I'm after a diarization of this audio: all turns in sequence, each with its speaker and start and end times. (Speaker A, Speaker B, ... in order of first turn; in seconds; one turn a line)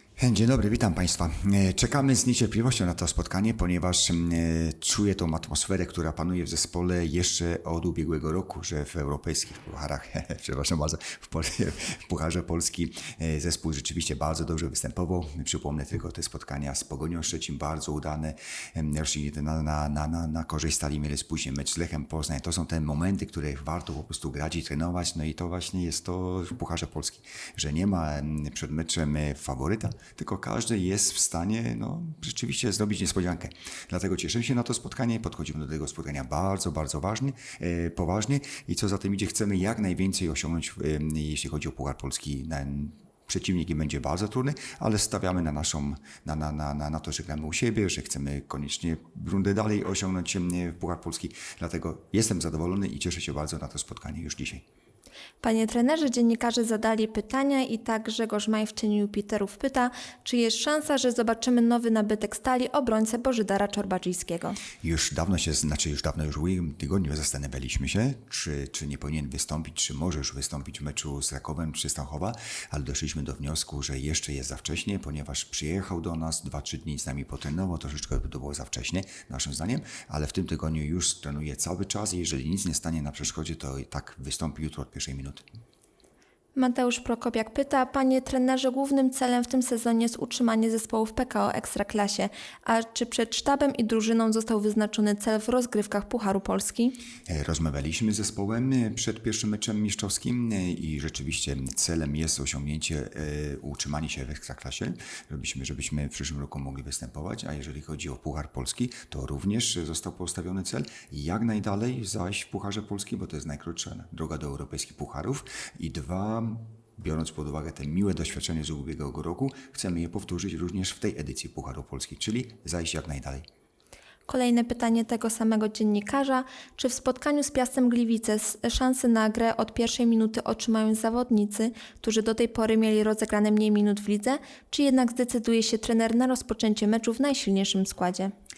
Speaker A: 0.2-54.6
Speaker B: 55.4-64.6
Speaker A: 64.8-85.4
Speaker B: 86.5-97.0
Speaker A: 97.3-123.4
Speaker B: 124.3-138.3